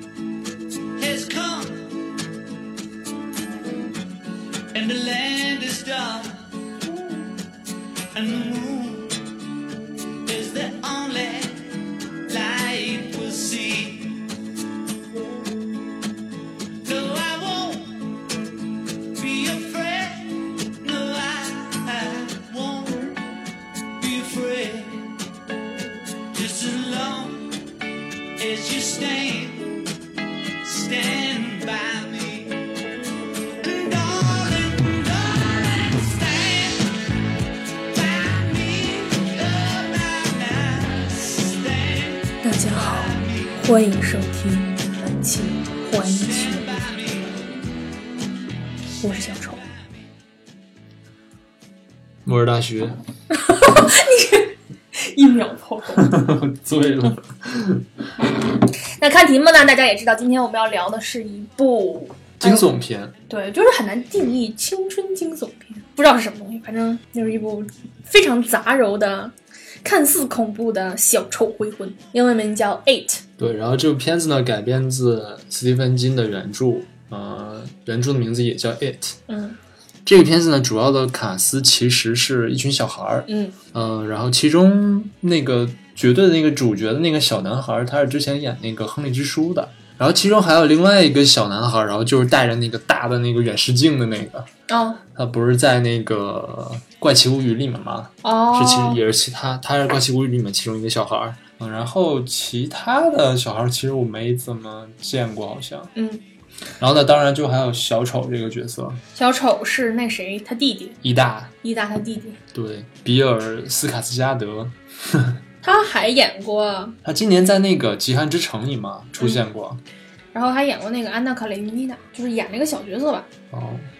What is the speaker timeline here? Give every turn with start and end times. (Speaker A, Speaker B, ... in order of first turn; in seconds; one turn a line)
Speaker A: 1.0-2.0
Speaker A: 4.7-6.5
Speaker A: 8.1-9.2
Speaker A: 10.3-14.2
Speaker A: 16.8-18.0
Speaker A: 19.1-23.2
Speaker A: 24.0-25.1
Speaker A: 26.3-27.5
Speaker A: 28.4-29.9
Speaker A: 30.6-32.7
Speaker A: 33.6-37.0
Speaker A: 37.9-43.6
Speaker B: 42.4-46.8
Speaker A: 46.0-47.5
Speaker B: 49.0-49.6
Speaker C: 52.2-53.0
Speaker B: 53.3-56.2
Speaker C: 56.0-57.9
Speaker B: 59.0-62.7
Speaker C: 62.4-63.1
Speaker B: 63.3-73.2
Speaker C: 73.4-79.2
Speaker B: 79.3-79.6
Speaker C: 80.0-94.5
Speaker B: 83.3-83.5
Speaker B: 94.7-95.0
Speaker C: 95.1-105.9
Speaker B: 98.2-99.0
Speaker B: 105.9-106.2
Speaker C: 106.8-109.0
Speaker B: 109.2-111.0
Speaker C: 111.0-111.5
Speaker B: 111.6-112.4
Speaker C: 112.5-115.4
Speaker B: 115.6-117.0
Speaker C: 117.0-119.8
Speaker B: 120.3-123.3
Speaker C: 123.5-123.9